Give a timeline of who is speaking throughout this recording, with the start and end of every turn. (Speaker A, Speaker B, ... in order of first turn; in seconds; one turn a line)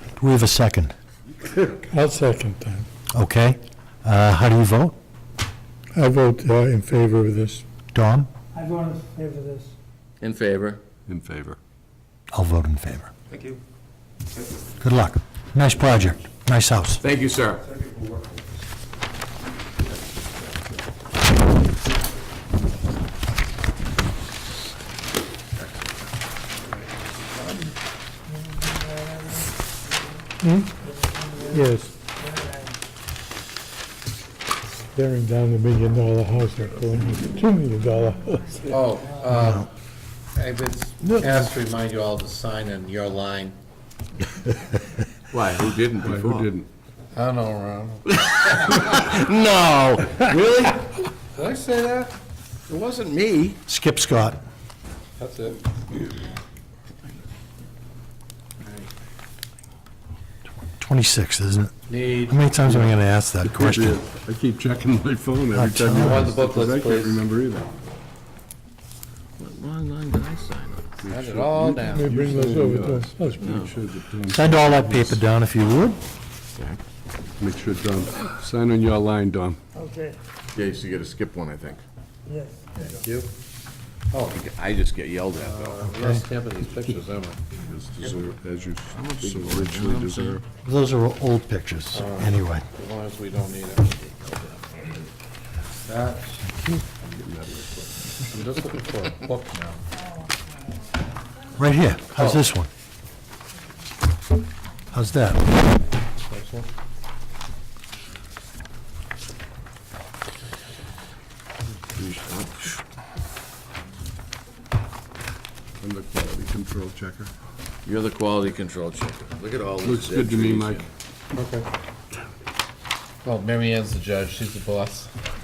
Speaker A: 0.2-0.9
Speaker B: 1.7-2.9
Speaker A: 3.1-5.0
Speaker B: 5.9-7.6
Speaker A: 7.9-8.3
Speaker C: 8.6-9.7
Speaker D: 10.2-10.8
Speaker E: 11.1-11.6
Speaker A: 12.3-13.1
Speaker A: 14.8-17.0
Speaker D: 17.0-17.6
Speaker C: 29.1-29.4
Speaker B: 30.4-30.7
Speaker C: 31.0-31.5
Speaker B: 31.5-31.9
Speaker C: 32.2-32.7
Speaker B: 34.8-38.7
Speaker F: 38.7-39.7
Speaker F: 40.4-43.6
Speaker D: 45.3-46.5
Speaker E: 46.0-46.7
Speaker F: 47.1-48.8
Speaker D: 48.1-51.0
Speaker F: 51.3-52.1
Speaker D: 52.7-53.6
Speaker A: 53.7-54.4
Speaker F: 55.2-55.6
Speaker A: 60.8-64.0
Speaker F: 61.9-62.4
Speaker E: 62.6-67.7
Speaker A: 65.5-66.3
Speaker F: 65.9-67.2
Speaker D: 69.4-70.9
Speaker E: 71.0-75.2
Speaker F: 71.1-72.2
Speaker B: 71.9-73.5
Speaker D: 73.4-73.7
Speaker A: 74.3-76.0
Speaker E: 77.4-79.6
Speaker C: 79.8-80.2
Speaker D: 80.5-81.8
Speaker C: 82.3-82.9
Speaker F: 82.8-83.3
Speaker D: 84.3-85.9
Speaker F: 85.4-87.4
Speaker A: 85.9-86.2
Speaker E: 87.5-90.4
Speaker D: 88.9-90.4
Speaker A: 90.6-92.7
Speaker F: 91.9-94.9
Speaker F: 95.7-96.4
Speaker E: 97.0-98.2
Speaker F: 98.3-99.8
Speaker A: 101.5-102.7
Speaker A: 104.9-105.5
Speaker F: 106.3-106.7
Speaker D: 112.0-112.6
Speaker E: 115.8-117.3
Speaker D: 117.8-120.9
Speaker E: 119.8-120.9
Speaker F: 121.3-121.7
Speaker F: 123.2-125.1